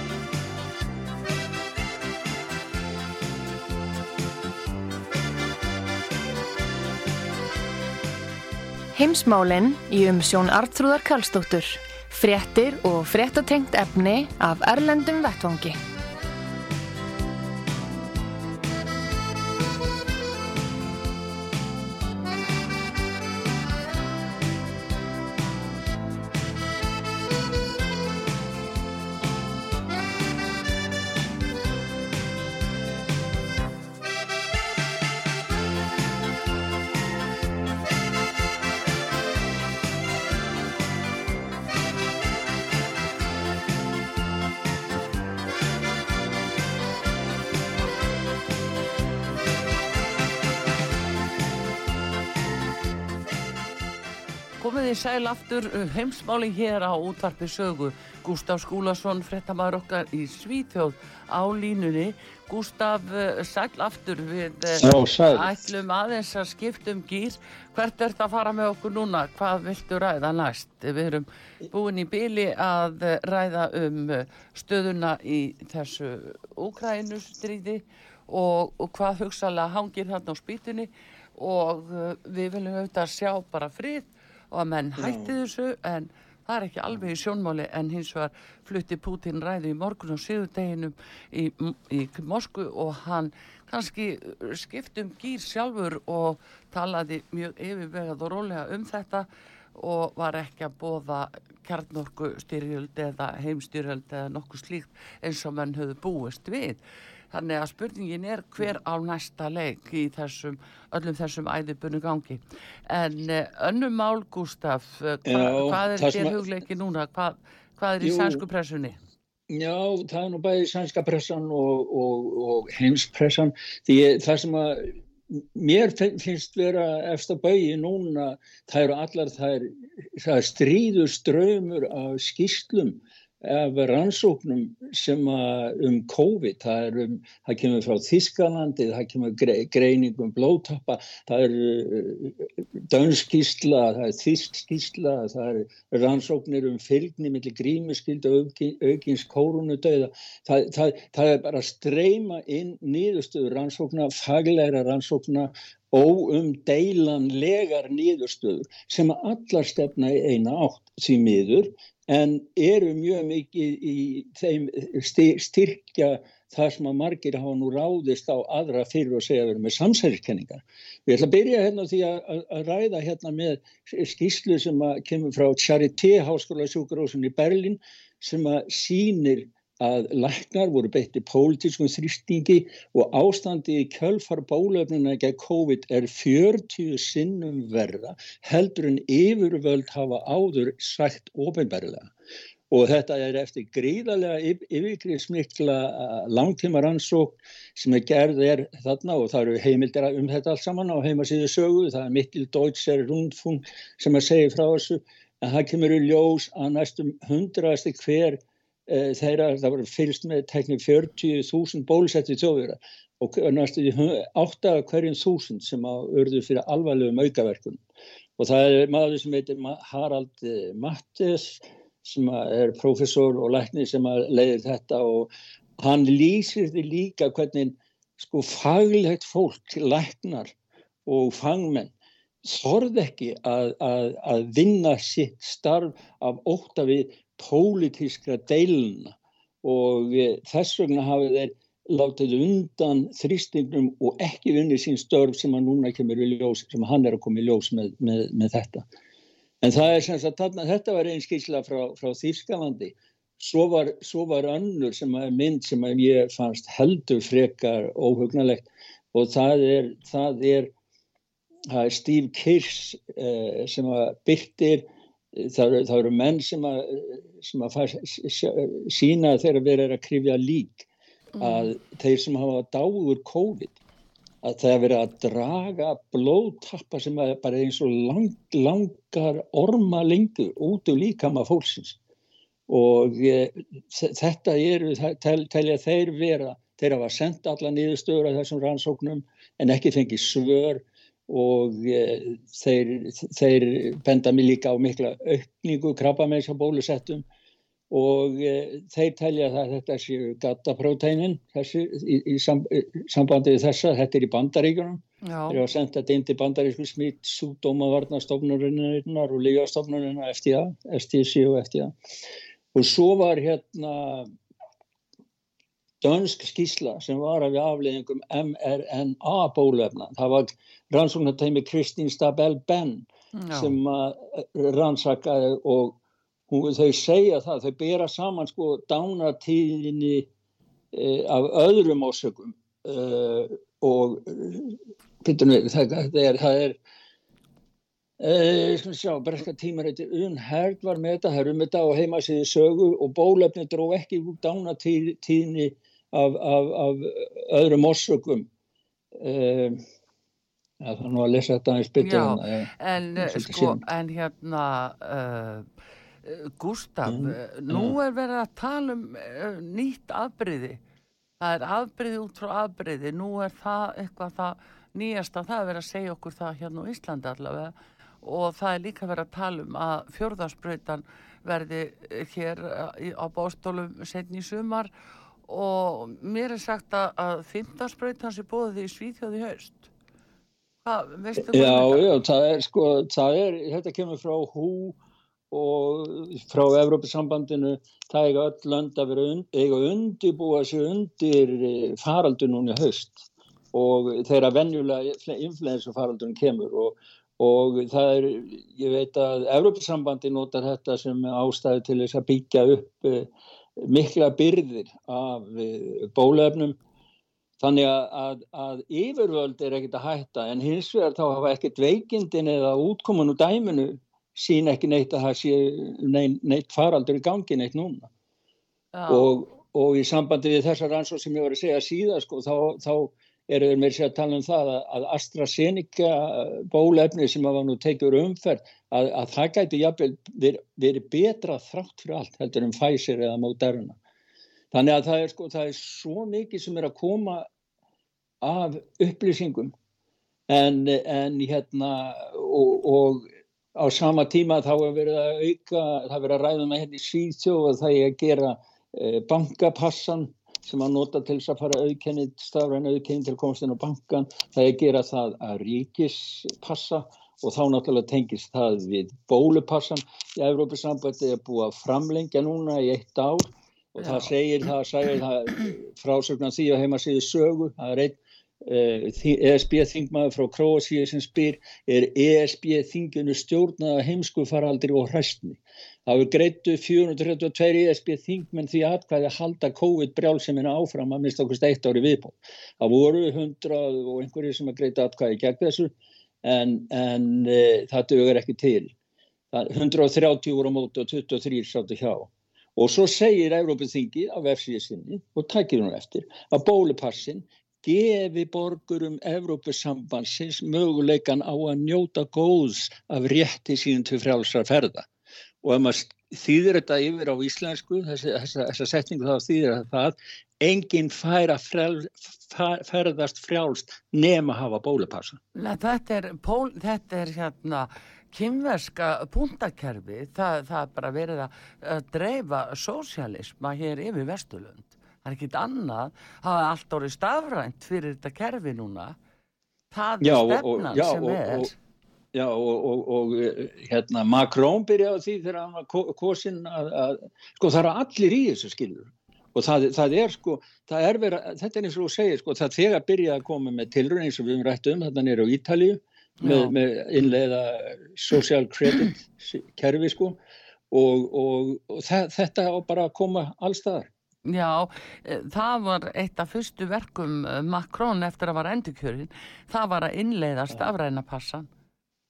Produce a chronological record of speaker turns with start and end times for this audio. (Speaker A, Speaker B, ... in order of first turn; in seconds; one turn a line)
Speaker A: 8.9-15.8
Speaker B: 54.6-106.8
Speaker C: 64.8-65.5
Speaker C: 85.0-85.3
Speaker B: 107.3-119.0
Speaker C: 115.2-116.4
Speaker C: 118.0-118.4
Speaker C: 119.5-192.1
Speaker C: 192.7-217.8
Speaker C: 218.4-230.5
Speaker C: 231.1-231.9
Speaker C: 232.4-248.9
Speaker C: 249.6-260.7
Speaker C: 261.7-270.9
Speaker B: 271.4-271.7
Speaker C: 271.4-273.8
Speaker C: 274.4-282.0
Speaker C: 282.7-297.2
Speaker C: 297.9-311.9
Speaker B: 305.2-305.6
Speaker C: 312.7-314.3
Speaker C: 316.0-326.0
Speaker B: 323.4-323.8
Speaker C: 326.5-330.3
Speaker C: 330.9-336.8
Speaker C: 338.2-348.5
Speaker C: 349.1-349.8
Speaker C: 350.8-353.8
Speaker B: 352.0-355.7
Speaker B: 356.2-360.8
Speaker C: 357.1-357.9
Speaker B: 361.4-374.9
Speaker B: 375.5-379.9
Speaker B: 380.8-382.1
Speaker C: 381.4-385.0
Speaker C: 385.5-406.8
Speaker C: 407.6-418.1
Speaker B: 418.9-419.3
Speaker C: 419.1-434.0
Speaker C: 434.7-437.5
Speaker C: 438.4-439.7
Speaker C: 440.5-488.9
Speaker B: 464.0-464.3
Speaker C: 489.5-505.1
Speaker C: 505.6-515.4
Speaker B: 515.5-529.2
Speaker B: 529.9-531.7
Speaker C: 530.2-531.7
Speaker C: 532.3-550.4
Speaker B: 546.4-546.7
Speaker C: 550.9-554.1
Speaker B: 554.5-561.7